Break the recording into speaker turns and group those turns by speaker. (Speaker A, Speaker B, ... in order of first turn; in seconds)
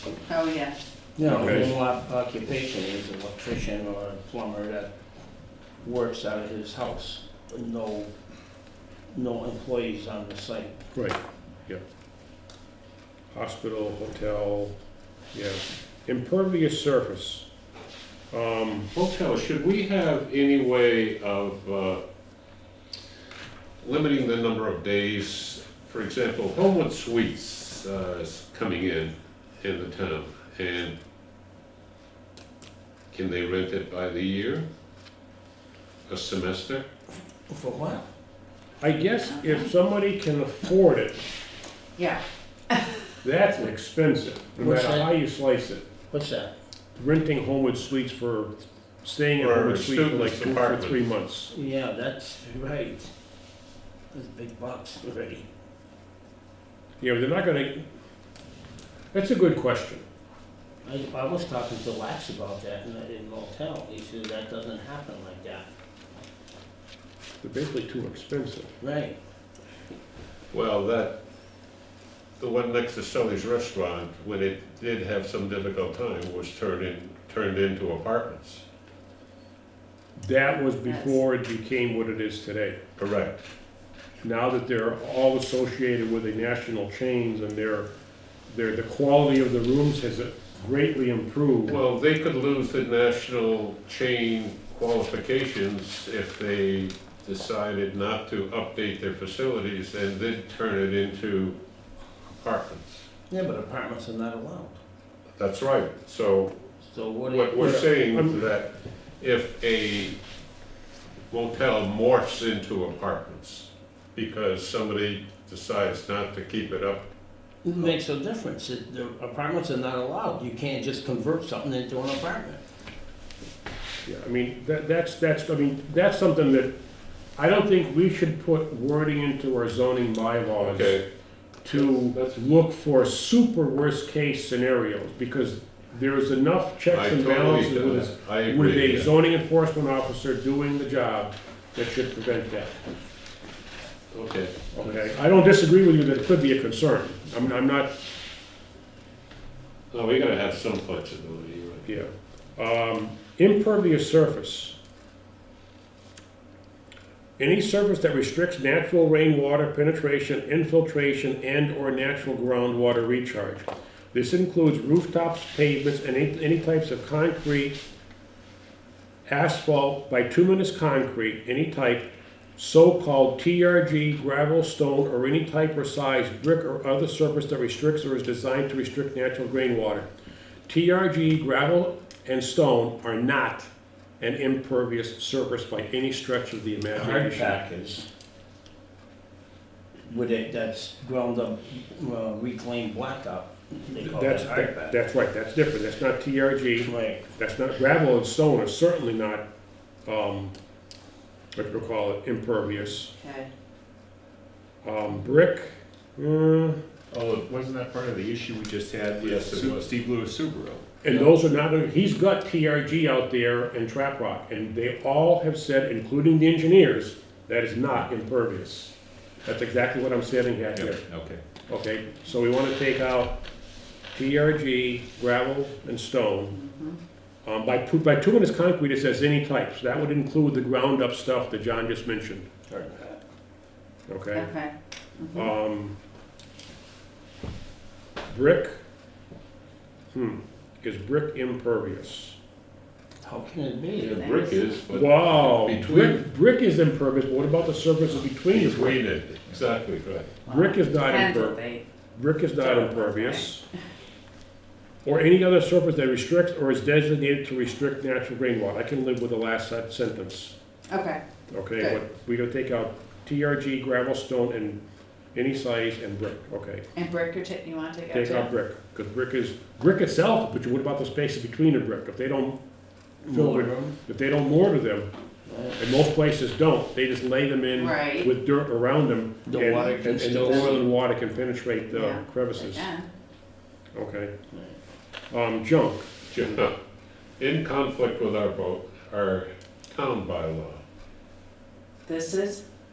Speaker A: 0.3-0.8, 39.3-39.6, 42.0-43.0, 80.7-81.2, 203.1-203.5, 226.5-227.0, 234.3-235.5, 244.2-244.6, 250.4-251.8, 252.6-253.5, 260.9-261.2, 266.9-268.5, 277.8-278.3, 280.4-280.7, 281.9-283.1, 292.0-292.6
Speaker B: 1.2-4.9, 5.8-8.1, 9.1-10.8, 37.5-38.0, 44.6-45.1, 46.1-46.5, 51.5-53.1, 54.1-55.4, 60.8-65.7, 68.8-69.1, 103.3-104.8, 106.8-107.8, 117.6-122.6, 186.9-188.1, 190.1-195.0, 196.8-197.2, 232.7-233.2, 243.2-244.3, 273.3-273.9, 275.5-275.8, 279.5-280.9
Speaker C: 1.2-1.7, 10.9-11.8, 13.3-14.7, 15.3-17.5, 18.3-18.9, 38.8-41.2, 43.2-45.9, 47.0-51.5, 57.0-57.9, 59.1-60.0, 67.4-68.7, 80.2-82.8, 84.2-87.9, 88.5-91.8, 107.6-108.5, 124.0-126.7, 127.4-131.0, 131.6-142.8, 144.7-148.0, 151.8-154.8, 157.4-167.8, 169.3-180.1, 180.7-187.6, 194.0-199.4, 200.1-200.5, 201.6-203.1, 204.8-206.8, 211.0-221.0, 221.7-223.4, 224.1-226.6, 227.4-232.5, 234.1-234.5, 235.3-235.9, 238.3-238.8, 240.1-242.4, 244.9-249.0, 250.4-251.6, 252.1-253.6, 255.0-260.5, 261.5-264.8, 265.3-266.9, 268.1-272.6, 273.2-275.1, 275.8-282.9, 283.9-284.3, 285.3-286.1
Speaker D: 1.4-1.7, 18.9-22.0, 23.8-31.0, 33.1-34.7, 36.1-36.8, 49.4-51.0, 70.5-71.2, 72.4-78.6, 83.0-83.4, 91.7-101.6, 102.4-103.0, 105.4-106.5, 107.3-110.2, 111.3-117.1, 130.6-131.0, 131.7-132.4, 136.9-139.1, 144.1-144.8, 149.9-151.8, 209.2-209.9, 243.9-246.2, 248.5-250.3, 286.3-286.7, 287.4-290.8
Speaker E: 207.1-211.2, 220.7-221.4